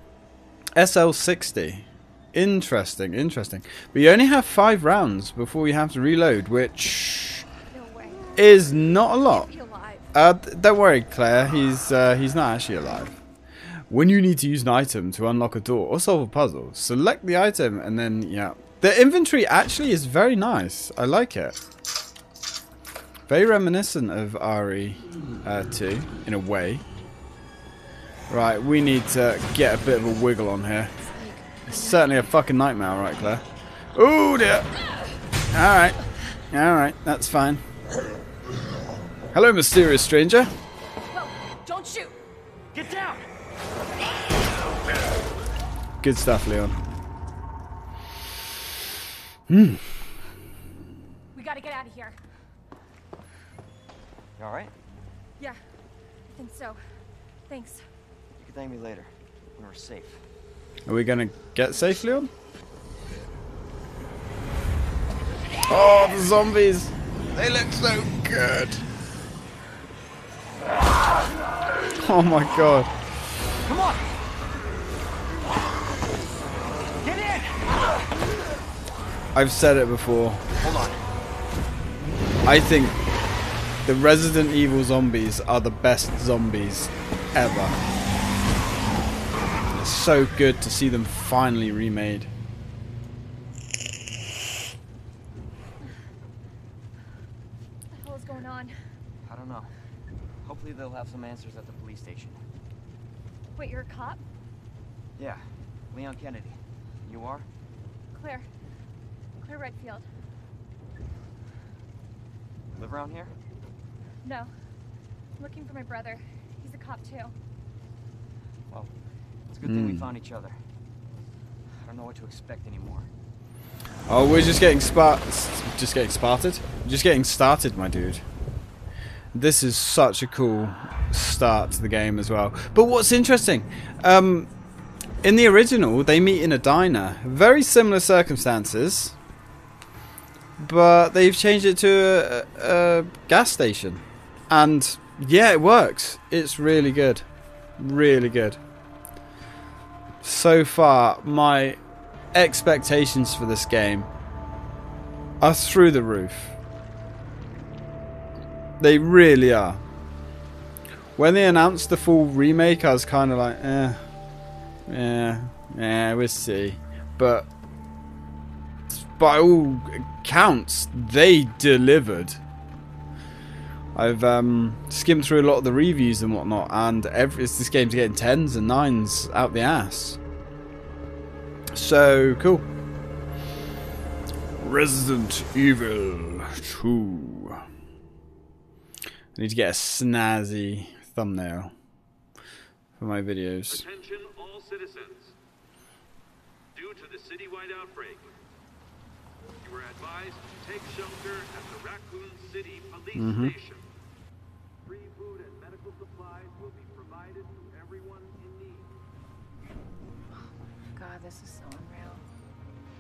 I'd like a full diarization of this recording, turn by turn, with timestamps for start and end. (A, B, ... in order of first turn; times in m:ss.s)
0:00.8-0:07.5 A
0:07.7-0:10.1 B
0:08.4-0:09.5 A
0:10.1-0:13.2 A
0:13.9-0:21.6 A
0:23.3-0:26.8 A
0:28.3-0:30.9 A
0:31.0-0:32.0 B
0:31.7-0:34.7 A
0:35.5-0:36.0 A
0:36.5-0:37.6 A
0:39.3-0:40.5 A
0:41.1-0:42.2 B
0:42.7-0:43.2 C
0:46.0-0:46.8 A
0:49.5-0:49.9 A
0:51.3-0:52.2 B
0:54.4-0:54.7 C
0:56.3-0:56.8 B
0:57.5-0:57.8 B
0:58.4-1:00.2 C
1:00.9-1:02.3 A
1:05.6-1:08.9 A
1:11.8-1:12.9 A
1:13.7-1:14.0 C
1:17.0-1:17.6 C
1:19.3-1:20.4 A
1:20.6-1:21.0 C
1:22.4-1:23.0 A
1:23.8-1:27.8 A
1:29.7-1:32.3 A
1:37.9-1:38.8 B
1:39.2-1:39.7 C
1:40.4-1:42.4 C
1:43.6-1:44.2 B
1:45.2-1:47.5 C
1:48.1-1:48.5 B
1:49.4-1:50.1 B
1:52.7-1:53.4 C
1:54.2-1:54.5 B
1:55.4-1:57.4 B
1:59.5-2:00.6 C
1:59.6-2:00.1 A
2:01.7-2:03.1 C
2:04.1-2:08.2 A
2:09.3-2:14.5 A
2:15.2-2:19.2 A
2:20.6-2:27.2 A
2:27.8-2:28.6 A
2:30.2-2:31.8 A
2:32.3-2:34.1 A
2:35.4-2:36.6 A
2:38.8-2:39.8 A
2:41.2-2:44.0 A
2:44.9-2:47.5 A
2:48.9-2:52.4 A
2:53.9-3:00.2 A
3:01.7-3:02.7 A
3:04.6-3:07.6 A
3:09.4-3:11.7 A
3:13.0-3:13.8 A
3:13.7-3:15.4 D
3:16.7-3:18.3 D
3:19.6-3:23.8 D
3:23.1-3:23.5 A
3:24.8-3:28.9 D
3:30.9-3:32.2 B